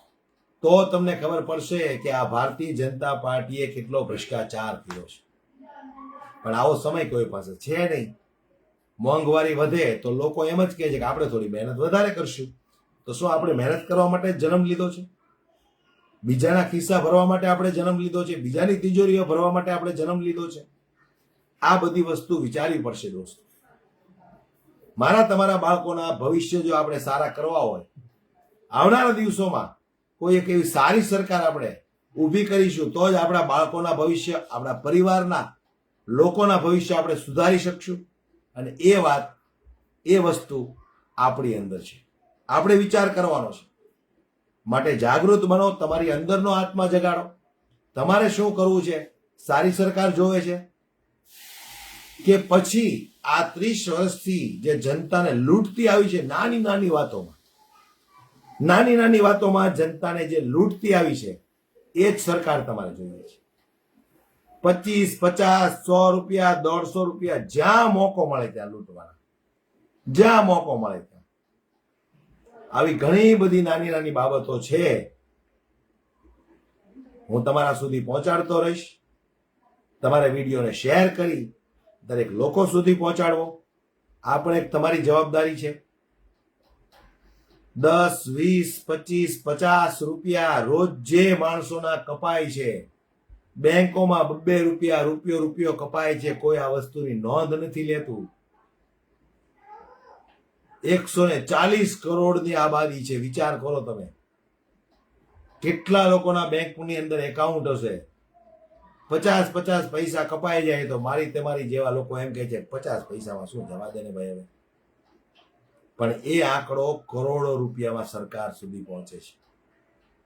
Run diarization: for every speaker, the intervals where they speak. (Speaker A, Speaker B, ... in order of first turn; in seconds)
Speaker A: 0.6-5.2, 6.4-8.1, 9.0-12.5, 13.0-15.1, 16.2-20.7, 21.6-23.4, 25.0-27.9, 28.7-35.4, 36.1-38.0, 38.5-39.4, 40.1-40.7, 41.2-43.7, 44.7-47.3, 47.9-50.6, 52.2-57.4, 58.6-61.4, 62.0-63.4, 64.6-69.2, 70.1-71.2, 72.7-75.1, 77.3-79.0, 80.0-81.5, 82.0-83.6, 84.2-85.8, 87.8-92.8, 93.6-98.3, 100.8-104.1, 105.6-108.0, 109.1-114.5, 116.0-119.4